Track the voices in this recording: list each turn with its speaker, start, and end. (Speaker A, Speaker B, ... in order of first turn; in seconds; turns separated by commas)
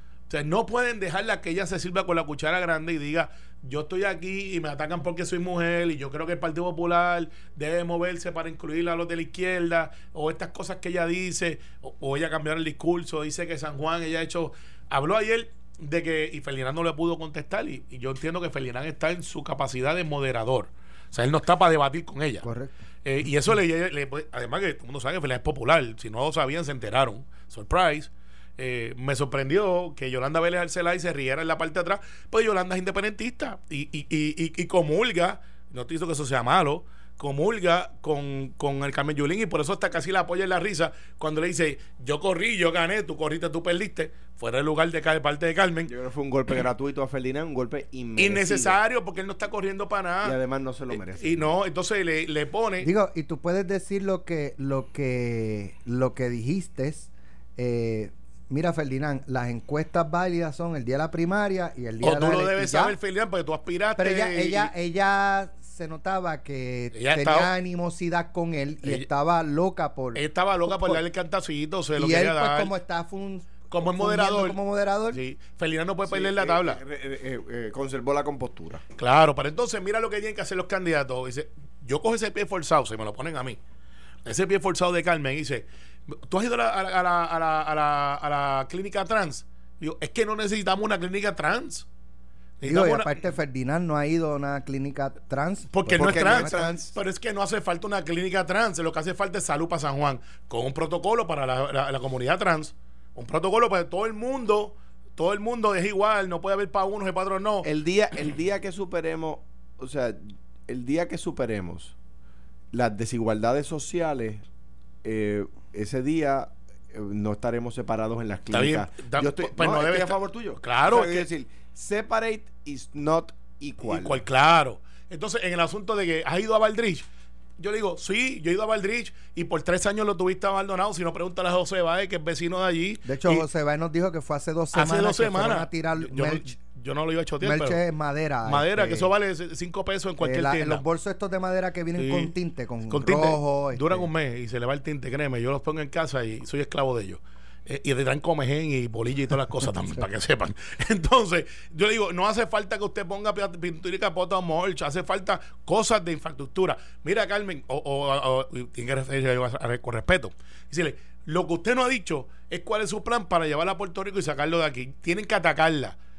Speaker A: 0.3-22.5, Speaker B: 22.4-22.7, Speaker A: 23.0-45.9, Speaker C: 45.9-48.8, Speaker A: 48.2-50.4, Speaker C: 50.2-51.5, Speaker A: 50.9-52.9, Speaker B: 52.8-63.0, Speaker A: 62.0-64.7, Speaker B: 64.0-71.0, Speaker A: 66.9-67.5, Speaker A: 70.1-72.7, Speaker B: 72.0-75.2, Speaker A: 73.7-74.6, Speaker A: 75.1-76.8, Speaker C: 76.0-78.8, Speaker A: 79.0-83.6, Speaker A: 84.2-91.9, Speaker A: 92.6-93.2, Speaker B: 92.6-96.9, Speaker A: 95.7-107.7, Speaker C: 95.9-96.9, Speaker C: 107.6-111.9, Speaker C: 112.7-114.4, Speaker C: 115.0-124.2, Speaker A: 118.5-121.3, Speaker A: 123.8-127.0, Speaker A: 127.6-133.4, Speaker B: 133.1-136.5, Speaker A: 134.7-137.8, Speaker B: 137.4-139.1, Speaker A: 138.4-140.8, Speaker B: 140.2-144.1, Speaker A: 142.0-142.3, Speaker A: 142.9-166.0